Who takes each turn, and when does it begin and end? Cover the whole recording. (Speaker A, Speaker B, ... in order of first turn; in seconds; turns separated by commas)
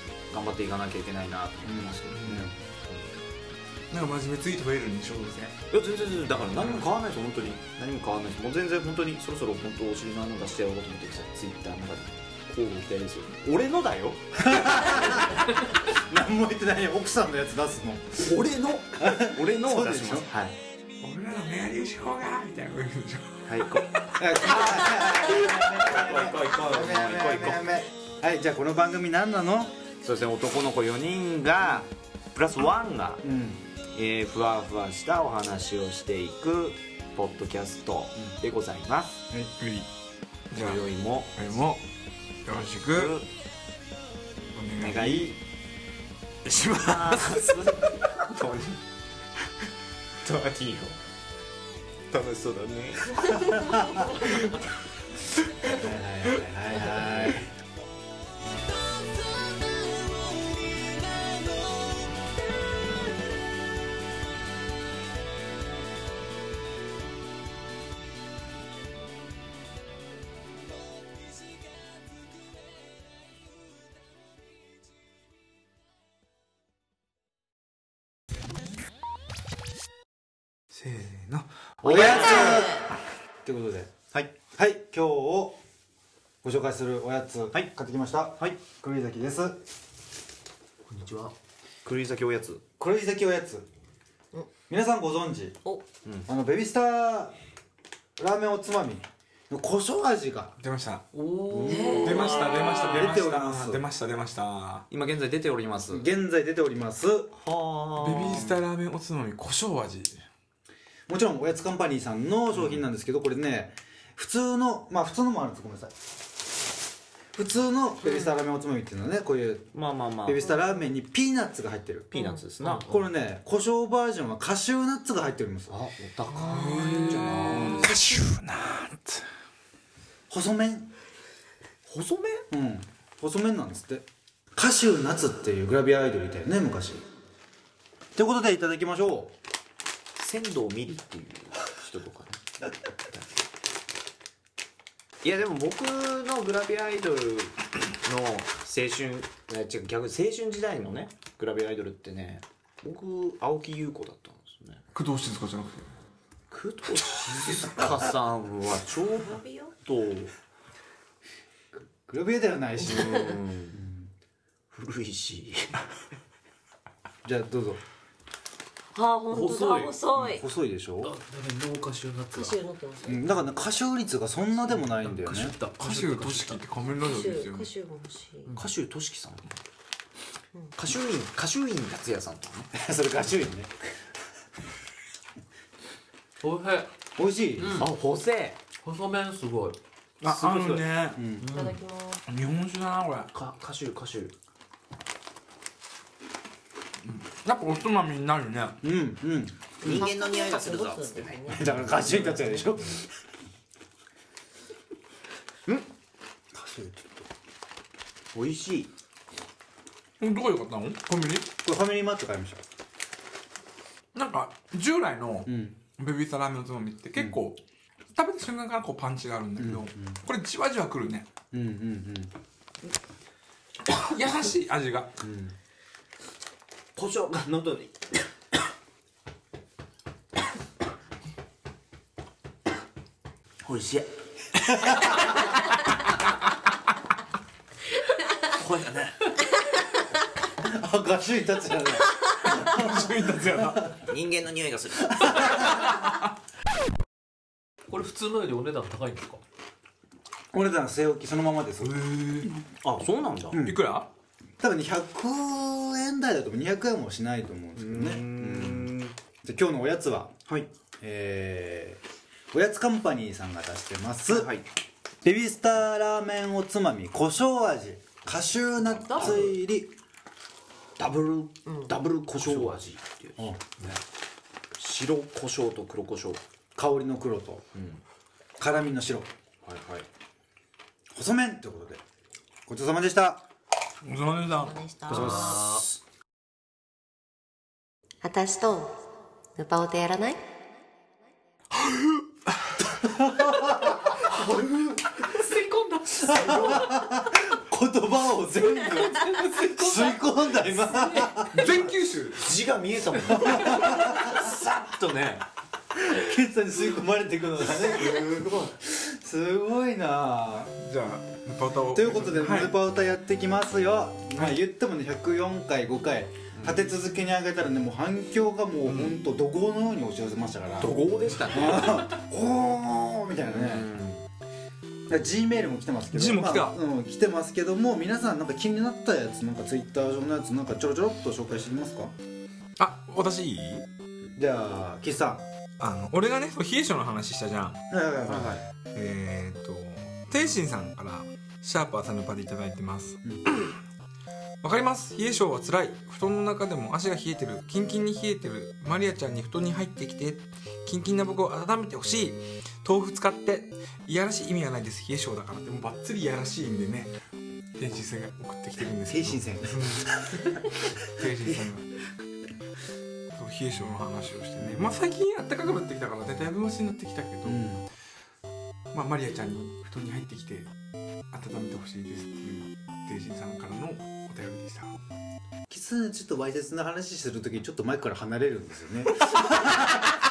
Speaker A: 0.3-3.0, Speaker B: 1.6-2.5, Speaker C: 3.9-5.6, Speaker A: 5.7-15.1, Speaker B: 14.4-18.4, Speaker A: 18.2-20.6, Speaker B: 19.0-20.3, Speaker C: 21.0-23.5, Speaker A: 23.5-23.9, Speaker B: 24.2-29.8, Speaker A: 24.5-27.7, Speaker A: 30.0-33.2, Speaker B: 33.2-33.6, Speaker A: 33.9-39.2, Speaker C: 39.6-39.9, Speaker C: 40.5-40.8, Speaker A: 40.5-41.6, Speaker C: 41.4-41.8, Speaker C: 42.5-43.2, Speaker A: 42.9-43.3, Speaker C: 44.5-45.4, Speaker A: 44.8-45.4, Speaker C: 46.5-47.6, Speaker A: 46.8-48.8, Speaker A: 50.2-51.0, Speaker A: 52.1-53.4, Speaker B: 53.6-54.0, Speaker B: 55.6-57.5, Speaker C: 80.7-82.7, Speaker A: 81.8-82.7, Speaker B: 81.8-82.9, Speaker D: 82.4-82.8, Speaker B: 83.5-83.9, Speaker B: 84.5-85.6, Speaker B: 86.4-89.6, Speaker E: 90.9-91.3, Speaker A: 91.8-92.6, Speaker B: 92.8-93.7, Speaker B: 94.7-95.6, Speaker B: 96.3-97.3, Speaker B: 98.2-100.6, Speaker C: 100.6-101.0, Speaker E: 101.1-102.9, Speaker B: 101.5-102.1, Speaker D: 101.7-102.8, Speaker C: 102.0-104.9, Speaker B: 102.9-103.8, Speaker A: 104.9-106.1, Speaker B: 105.9-107.3, Speaker A: 107.4-108.6, Speaker C: 108.0-110.2, Speaker B: 111.1-115.9, Speaker A: 112.5-112.8, Speaker B: 117.3-119.7, Speaker A: 119.7-120.5, Speaker B: 120.2-122.1, Speaker A: 122.1-122.9, Speaker E: 122.6-123.0, Speaker B: 122.8-125.7, Speaker A: 125.7-128.1, Speaker D: 126.4-127.3, Speaker C: 126.4-129.3, Speaker B: 130.3-130.9, Speaker A: 131.9-132.5, Speaker B: 132.5-137.0, Speaker B: 138.2-139.3, Speaker A: 140.2-142.5, Speaker A: 145.2-154.8, Speaker C: 154.9-155.9, Speaker A: 156.5-160.3, Speaker D: 159.2-159.7, Speaker B: 162.1-164.1, Speaker A: 162.8-163.8, Speaker A: 164.7-165.8, Speaker B: 167.2-167.8, Speaker D: 168.9-170.4, Speaker E: 169.3-170.0, Speaker B: 170.2-171.1, Speaker E: 171.0-172.6, Speaker D: 172.3-173.3, Speaker B: 173.1-175.6, Speaker E: 174.7-176.6, Speaker C: 175.8-177.7, Speaker D: 177.0-178.5, Speaker A: 178.6-179.5, Speaker A: 180.8-182.7, Speaker B: 182.8-183.8, Speaker E: 186.4-186.9, Speaker B: 187.2-187.8, Speaker E: 187.6-187.9, Speaker A: 187.8-188.6, Speaker E: 188.8-189.8, Speaker A: 190.2-190.9, Speaker C: 190.2-191.2, Speaker B: 191.2-191.5, Speaker E: 191.5-191.8, Speaker D: 191.5-192.2, Speaker C: 192.3-193.3, Speaker A: 193.3-194.3, Speaker C: 197.1-198.8, Speaker B: 198.8-200.1, Speaker A: 199.8-201.8, Speaker D: 199.8-202.7, Speaker B: 201.5-203.1, Speaker B: 206.5-207.2, Speaker A: 208.3-208.9, Speaker C: 210.2-211.5, Speaker B: 211.6-212.6, Speaker C: 214.1-217.6, Speaker B: 215.5-215.8, Speaker C: 218.2-221.3, Speaker B: 219.6-220.2, Speaker B: 221.5-222.3, Speaker C: 223.9-225.2, Speaker B: 225.2-225.6, Speaker A: 227.0-228.1, Speaker A: 233.6-234.1, Speaker A: 238.6-239.2, Speaker B: 240.6-243.1, Speaker C: 242.4-244.0, Speaker A: 244.1-245.6, Speaker B: 245.2-245.8, Speaker E: 247.9-249.4, Speaker B: 250.5-252.0, Speaker A: 252.7-253.6, Speaker B: 253.5-253.8, Speaker C: 253.6-254.1, Speaker B: 254.6-260.4, Speaker A: 257.8-259.1, Speaker B: 261.0-264.5, Speaker A: 264.3-264.7, Speaker B: 265.2-269.9, Speaker E: 269.0-269.6, Speaker A: 271.0-274.0, Speaker E: 272.4-272.8, Speaker B: 273.4-273.6, Speaker A: 274.8-276.4, Speaker B: 276.8-277.7, Speaker A: 277.7-278.0, Speaker B: 278.6-279.3, Speaker A: 279.6-280.1, Speaker B: 281.1-282.0, Speaker B: 282.7-283.4, Speaker C: 284.0-284.8, Speaker D: 284.5-285.6, Speaker A: 285.1-286.0, Speaker B: 285.1-285.5, Speaker E: 285.4-285.6, Speaker D: 288.2-289.0, Speaker D: 289.6-290.4, Speaker B: 293.0-294.5, Speaker E: 295.2-297.0, Speaker B: 296.1-301.6, Speaker E: 298.8-301.4, Speaker C: 301.5-302.5, Speaker A: 301.6-305.4, Speaker B: 303.4-304.2, Speaker B: 305.9-310.8, Speaker A: 307.8-308.7, Speaker C: 310.8-312.8, Speaker B: 311.9-320.9, Speaker A: 316.5-316.9, Speaker A: 320.8-322.2, Speaker B: 321.5-323.9, Speaker A: 323.4-324.3, Speaker B: 325.1-332.1, Speaker C: 326.1-326.8, Speaker C: 332.8-333.9, Speaker B: 334.4-335.4, Speaker C: 335.8-337.8, Speaker B: 337.9-338.6, Speaker A: 338.3-338.7, Speaker C: 338.9-343.7, Speaker C: 344.6-357.1, Speaker C: 357.8-361.9, Speaker B: 359.1-360.5, Speaker C: 363.3-367.8, Speaker B: 364.6-364.9, Speaker B: 367.4-367.8, Speaker C: 368.9-370.7, Speaker C: 371.3-375.0, Speaker B: 375.7-380.0